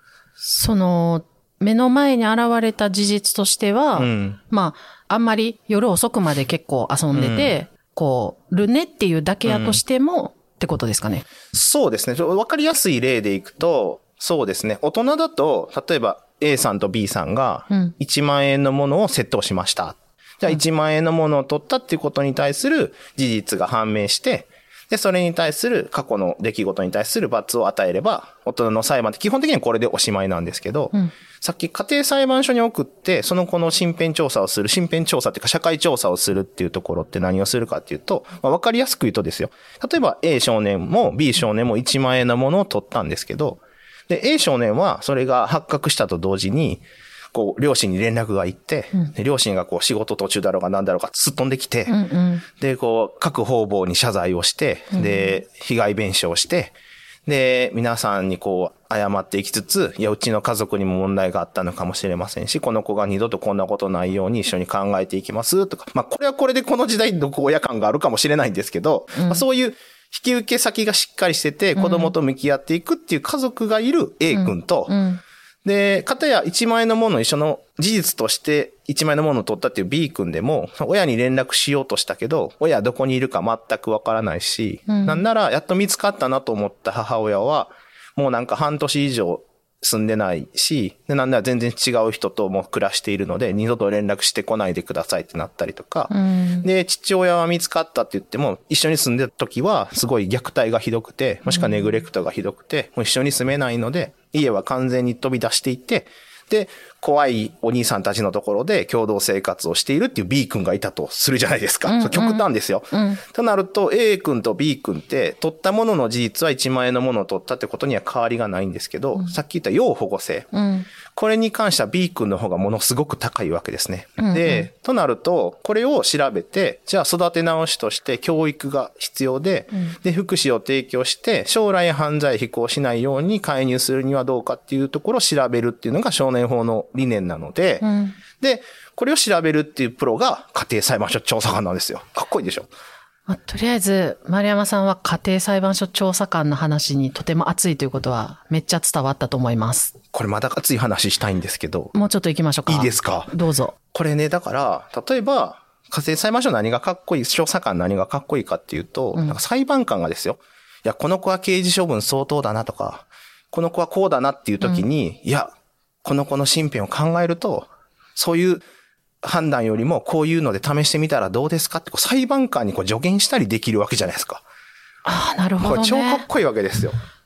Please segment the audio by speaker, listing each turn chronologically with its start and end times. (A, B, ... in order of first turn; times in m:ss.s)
0:00.4-0:11.2 A
0:04.0-0:04.4 B
0:07.1-0:07.6 B
0:09.5-0:09.8 B
0:11.5-0:46.8 B
0:47.3-0:52.0 B
0:51.9-0:52.4 A
0:52.5-0:56.7 B
0:54.9-0:55.3 A
0:57.3-1:15.0 B
1:09.1-1:09.4 A
1:11.8-1:12.1 A
1:14.3-1:15.2 A
1:15.6-2:00.5 B
1:24.9-1:25.2 A
1:36.1-1:36.7 A
1:41.5-1:41.9 A
1:51.9-1:53.2 A
2:00.5-2:00.9 A
2:01.1-2:22.7 B
2:04.2-2:04.7 A
2:17.8-2:18.2 A
2:23.3-2:30.0 A
2:30.1-2:31.9 B
2:31.9-2:33.8 A
2:32.7-2:33.3 B
2:33.9-2:45.5 B
2:46.0-2:48.6 B
2:49.2-2:54.4 B
2:55.0-2:56.2 A
2:55.6-2:57.0 B